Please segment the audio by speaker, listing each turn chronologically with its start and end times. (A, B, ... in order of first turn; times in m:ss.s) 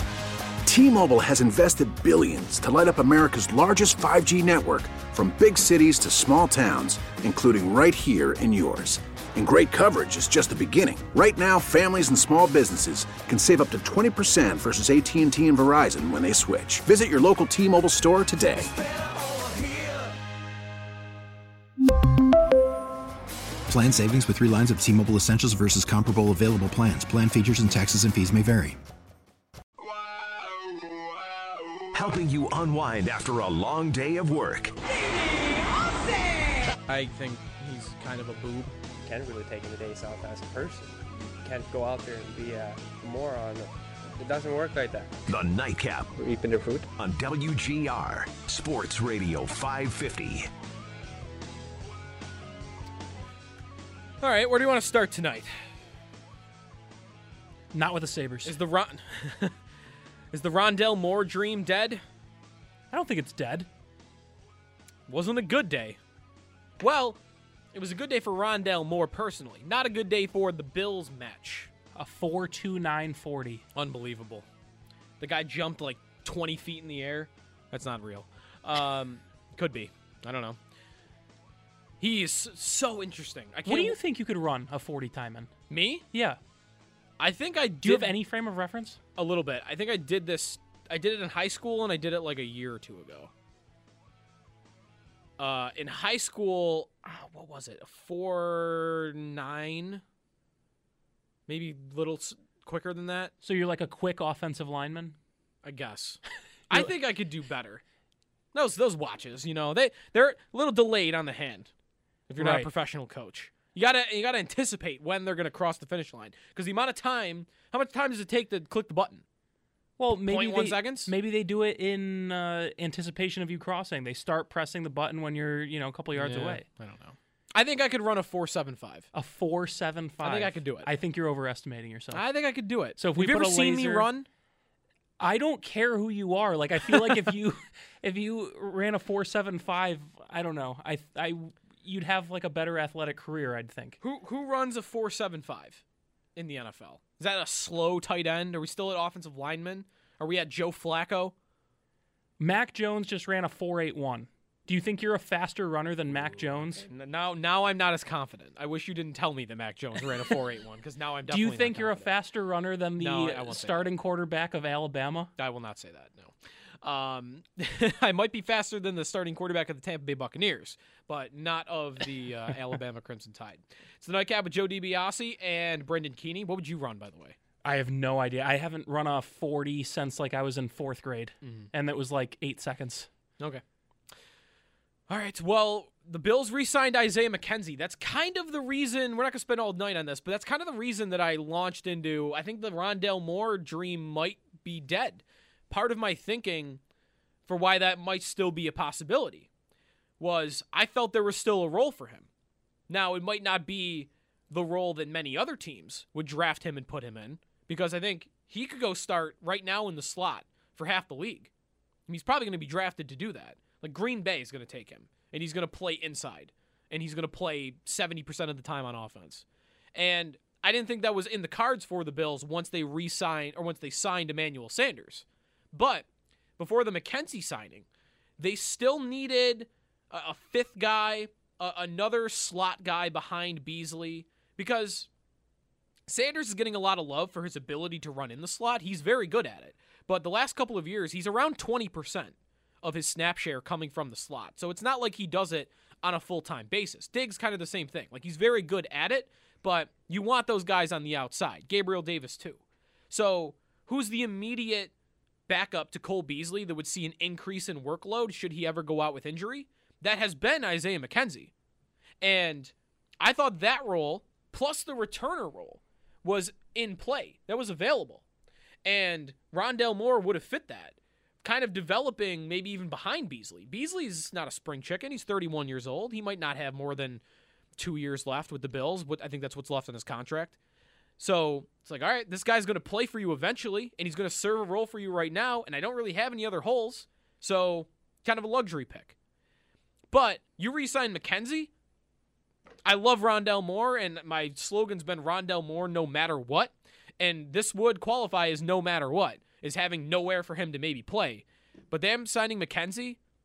0:00.7-0:18.7 A
0:23.7-0:28.8 B
0:31.9-0:34.8 C
0:36.9-0:38.7 D
0:38.9-0:45.2 E
0:45.3-0:46.1 C
0:46.1-0:46.9 E
0:47.0-0:50.5 C
0:54.2-0:55.6 D
0:57.7-0:58.6 F
0:58.4-0:59.6 D
1:00.3-1:02.0 D
1:02.9-1:03.7 F
1:05.1-1:06.0 D
1:06.8-1:07.2 D
1:07.7-1:11.7 D
1:12.0-1:13.6 F
1:13.8-1:14.5 D
1:15.2-1:20.6 D
1:22.0-1:24.0 D
1:23.7-1:25.5 F
1:25.7-1:26.0 D
1:26.1-1:26.4 F
1:27.2-1:28.1 D
1:27.8-1:29.0 F
1:29.2-1:33.3 D
1:35.4-1:40.0 D
1:41.5-1:43.3 D
1:43.4-1:45.2 F
1:45.6-1:47.8 D
1:48.5-1:51.7 D
1:52.3-1:59.2 D
1:52.4-1:52.7 F
2:00.0-2:06.6 F
2:00.1-2:01.1 D
2:06.2-2:09.1 D
2:09.1-2:12.2 F
2:10.2-2:10.9 D
2:12.1-2:14.3 D
2:13.0-2:14.1 F
2:15.2-2:24.0 F
2:24.0-2:25.8 D
2:26.4-2:31.3 D
2:32.4-2:36.8 F
2:36.8-2:42.1 D
2:41.3-2:45.3 F
2:43.0-2:43.9 D
2:45.4-2:57.4 D
2:57.6-3:03.1 F
3:01.4-3:01.7 D
3:05.1-3:16.8 D
3:17.5-3:19.5 D
3:20.2-3:22.3 D
3:22.9-3:31.5 D
3:32.1-3:46.0 D
3:46.6-3:47.8 D
3:48.4-3:55.1 D
3:56.1-4:14.9 D
4:15.5-4:21.5 D
4:22.2-4:28.2 D
4:28.8-4:37.2 D
4:37.8-4:40.6 D
4:41.2-4:49.2 D
4:50.1-4:51.7 D
4:52.8-5:03.2 D